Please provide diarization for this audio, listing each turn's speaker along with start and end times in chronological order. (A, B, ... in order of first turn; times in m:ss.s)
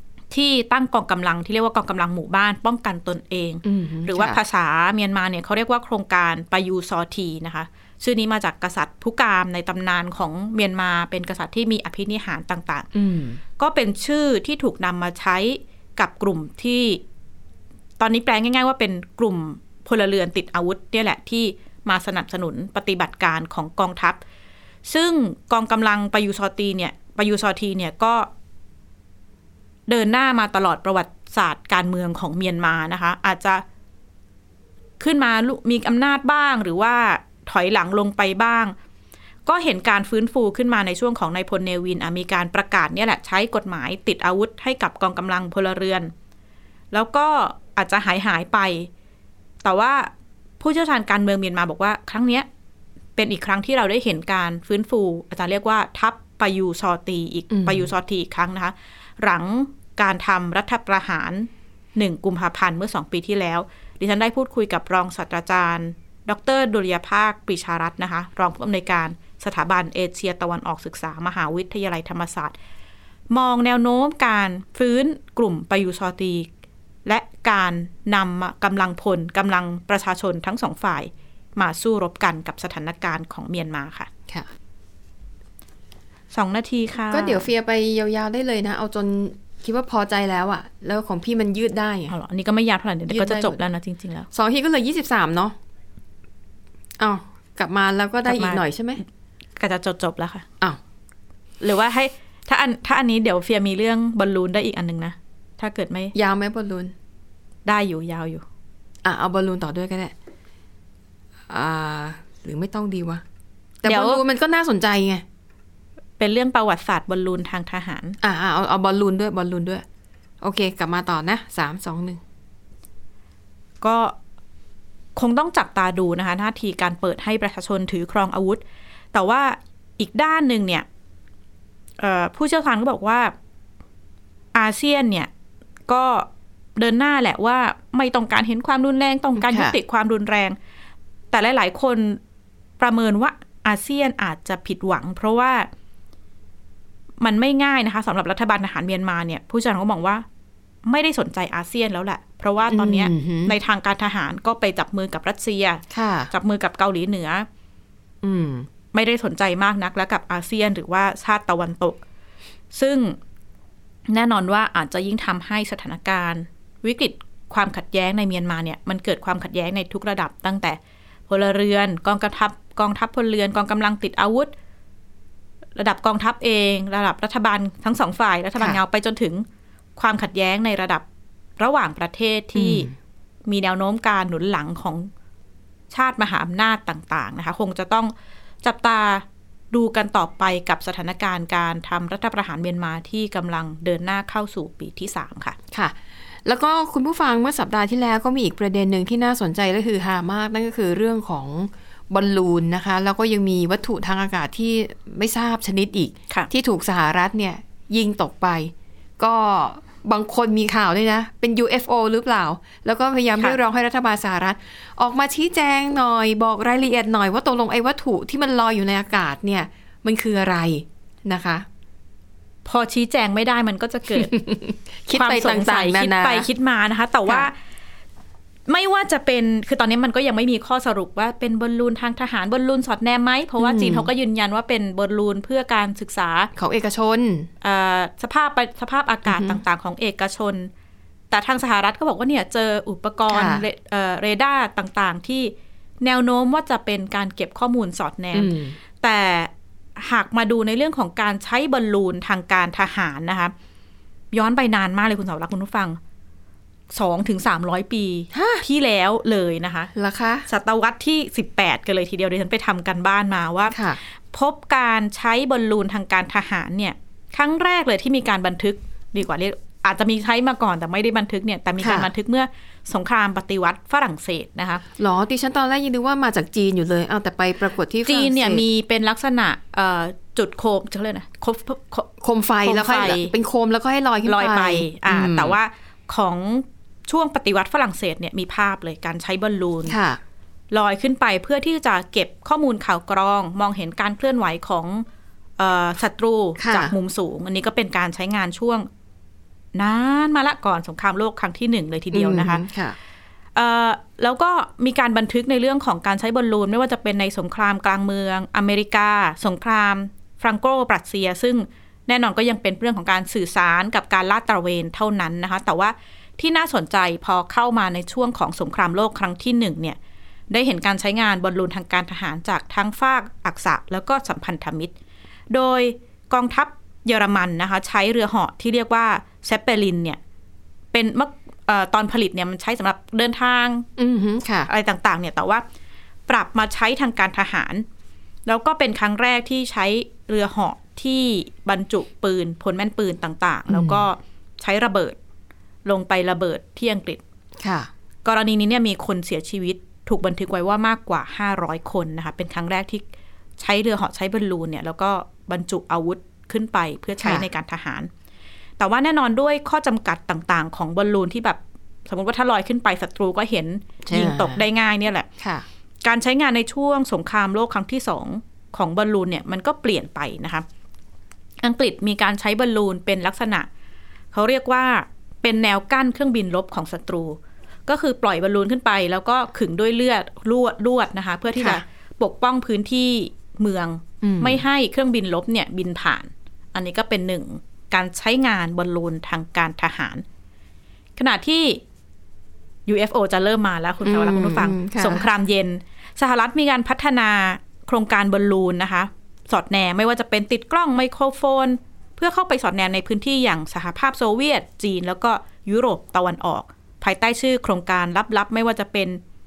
0:00.3-0:12.9 A
0:03.6-0:04.4 B
0:12.9-0:13.4 B
0:13.6-0:17.0 A
0:18.0-0:24.2 A
0:24.8-0:28.3 A
0:29.9-0:33.6 A
0:35.0-0:38.7 A
0:39.4-0:46.1 A
0:46.9-0:48.9 A
0:49.6-0:52.5 A
0:53.2-1:12.5 A
0:57.5-0:57.9 B
1:13.3-1:16.5 A
1:17.0-1:24.1 A
1:26.3-1:27.5 A
1:27.1-1:32.1 B
1:32.1-1:34.3 A
1:33.1-1:33.6 B
1:34.3-1:35.5 B
1:37.0-1:39.0 B
1:38.2-1:38.6 A
1:39.6-1:40.4 A
1:41.6-1:46.1 A
1:46.1-1:46.9 B
1:47.6-1:48.4 A
1:49.0-1:50.1 B
1:51.5-1:53.2 B
1:53.8-1:55.2 B
1:53.8-1:54.2 A
1:56.2-1:58.2 A
1:58.2-1:59.8 B
2:00.4-2:02.2 B
2:03.8-2:04.1 A
2:05.2-2:08.6 A
2:09.1-2:10.8 A
2:12.0-2:13.3 A
2:14.5-2:15.3 A
2:15.9-2:20.6 A
2:19.4-2:19.7 B
2:21.3-2:22.2 A
2:22.8-2:25.7 A
2:27.2-2:30.2 A
2:30.8-2:37.5 A
2:32.7-2:33.5 B
2:35.9-2:36.3 B
2:38.2-2:38.7 B
2:38.9-2:42.0 A
2:42.7-2:43.2 A
2:44.1-2:50.8 A
2:51.3-2:54.5 A
2:55.8-2:59.4 A
3:00.0-3:01.0 A
3:01.6-3:02.9 A
3:02.5-3:02.9 B
3:03.5-3:05.1 A
3:05.9-3:15.6 A
3:15.7-3:41.6 B
3:42.6-3:44.3 A
3:44.1-3:46.4 B
3:45.1-3:47.5 A
3:48.7-3:56.5 A
3:53.6-3:54.1 B
3:56.6-3:57.5 B
3:57.6-4:00.7 A
3:59.2-3:59.6 B
4:01.3-4:13.5 A
4:03.3-4:03.6 B
4:08.3-4:08.8 B
4:14.3-4:16.0 A
4:16.9-4:19.9 A
4:18.3-4:18.6 B
4:19.9-4:20.4 B
4:20.5-4:34.8 A
4:23.7-4:24.0 B
4:31.8-4:32.1 B
4:35.0-4:38.6 B
4:38.0-4:42.1 A
4:42.2-4:45.6 B
4:42.6-4:43.3 A
4:44.2-4:49.9 A
4:49.9-4:50.2 B
4:50.7-4:55.0 A
4:55.6-4:58.9 A
4:56.6-4:56.9 B
4:59.7-5:02.6 A
5:02.1-5:03.0 B
5:03.5-5:20.0 A
5:20.5-5:24.9 A
5:25.5-5:30.2 A
5:30.9-5:33.9 A
5:34.0-5:34.7 B
5:34.7-5:35.6 A
5:36.3-5:37.8 A
5:38.4-5:45.2 A
5:43.7-5:44.0 B
5:45.8-5:47.2 A
5:47.6-5:47.9 B
5:48.2-5:53.0 A
5:53.6-5:58.1 A
5:58.8-6:05.3 A
6:04.0-6:04.6 B
6:05.4-6:05.6 B
6:06.0-6:10.6 A
6:11.6-6:13.7 A
6:14.3-6:30.2 A
6:21.6-6:21.8 B
6:24.2-6:24.6 B
6:31.2-6:31.8 A
6:32.9-6:49.2 A
6:34.0-6:35.2 B